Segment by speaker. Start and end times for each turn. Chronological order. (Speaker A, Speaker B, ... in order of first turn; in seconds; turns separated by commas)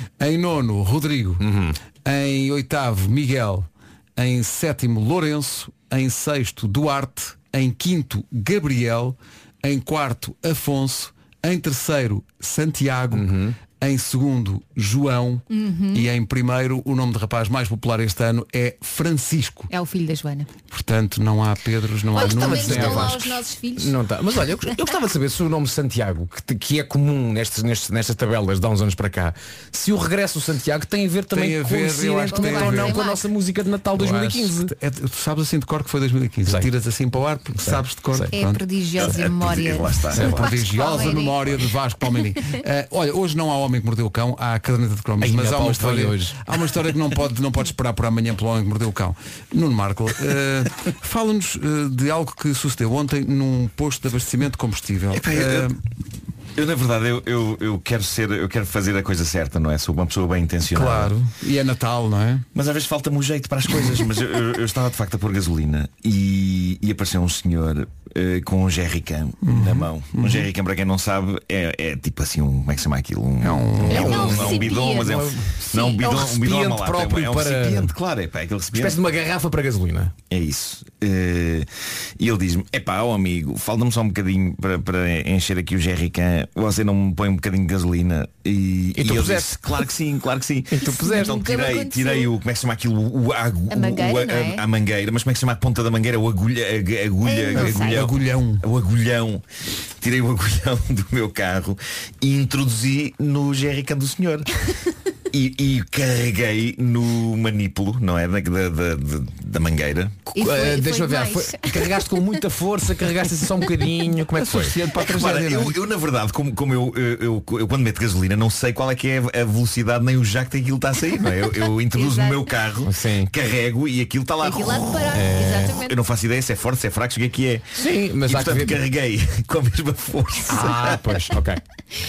Speaker A: 0.2-1.5, Speaker B: 1.4-1.8, Speaker A: 2.0-19.7, Speaker B: 13.1-13.6, Speaker C: 15.5-16.1, Speaker C: 19.7-20.5, Speaker A: 20.7-23.2, Speaker C: 22.1-23.9, Speaker B: 22.2-34.7, Speaker A: 31.3-33.0, Speaker C: 32.3-33.2, Speaker A: 34.0-38.6, Speaker B: 37.6-38.3, Speaker C: 38.3-41.4, Speaker D: 39.0-40.4, Speaker B: 40.1-40.4, Speaker A: 40.2-55.8, Speaker B: 45.2-46.4, Speaker D: 55.1-55.8, Speaker D: 56.6-61.1, Speaker A: 60.7-62.5, Speaker D: 62.5-79.0, Speaker A: 69.4-70.5, Speaker A: 73.4-74.2, Speaker B: 73.8-77.9, Speaker C: 73.9-75.1, Speaker C: 75.7-76.0, Speaker B: 78.7-80.1, Speaker D: 80.3-81.7, Speaker D: 82.2-99.4, Speaker B: 89.0-89.9, Speaker B: 90.8-91.3, Speaker C: 90.8-92.3, Speaker C: 93.7-94.6, Speaker C: 97.2-98.0, Speaker A: 97.5-98.6, Speaker D: 100.0-104.5, Speaker D: 105.3-110.2, Speaker B: 110.3-115.0, Speaker C: 110.3-112.1, Speaker A: 114.4-115.8, Speaker D: 115.0-131.1, Speaker C: 121.9-122.6, Speaker B: 122.9-123.3, Speaker C: 124.4-126.0, Speaker B: 125.1-125.7, Speaker B: 127.8-128.8, Speaker B: 130.5-131.6